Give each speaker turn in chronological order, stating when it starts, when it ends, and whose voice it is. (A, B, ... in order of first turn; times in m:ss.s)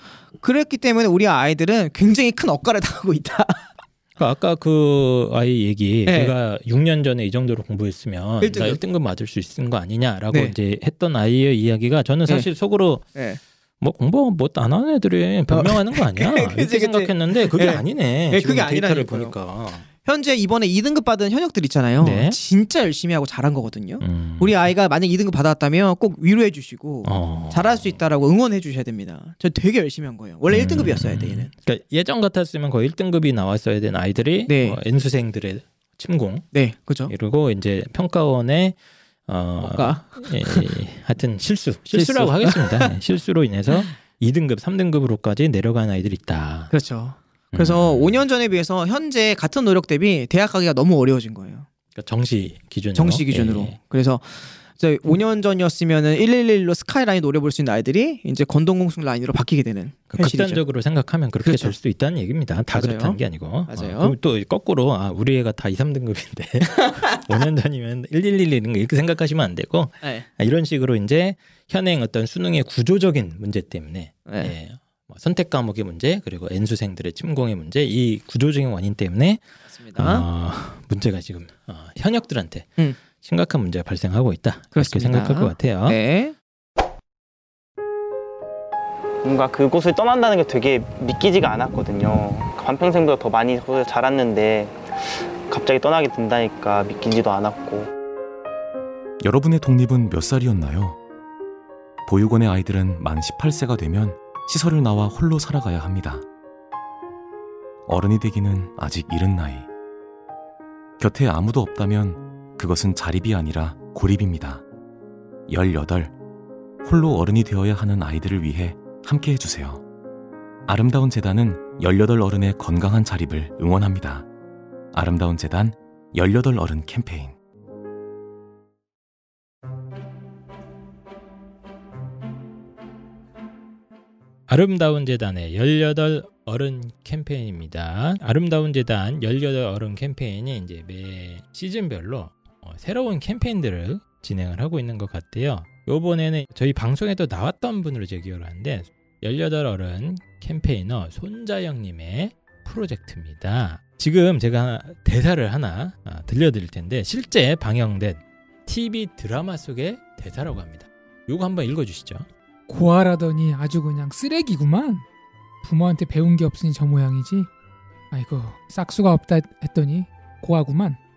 0:00.4-0:03.7 A
0:04.2-0:13.1 B
0:06.0-0:06.3 A
0:08.4-0:08.8 A
0:13.1-0:13.4 A
0:13.8-0:19.9 B
0:15.5-0:19.3 A
0:20.0-0:31.5 A
0:22.0-0:22.4 B
0:24.0-0:24.5 B
0:27.0-0:28.0 B
0:30.5-0:36.4 B
0:34.5-0:34.8 A
0:36.5-0:37.1 A
0:37.1-0:46.7 B
0:39.6-0:40.7 A
0:41.9-0:43.0 A
0:46.7-0:51.6 A
0:47.5-0:48.2 B
0:51.9-0:53.8 B
0:52.9-1:00.6 A
1:00.1-1:26.0 B
1:01.4-1:01.7 A
1:02.7-1:04.2 A
1:10.0-1:10.3 A
1:14.2-1:14.5 A
1:19.7-1:20.3 A
1:24.7-1:26.3 A
1:29.2-1:37.9 C
1:39.2-1:41.0 D
1:42.0-1:46.2 D
1:47.9-1:49.7 D
1:51.0-1:54.6 D
1:55.5-1:56.1 D
1:56.8-1:59.8 D
2:00.6-2:04.2 D
2:04.9-2:07.4 D
2:14.5-2:42.3 B
2:42.7-2:45.0 E
2:45.6-2:47.5 E
2:48.1-2:51.0 E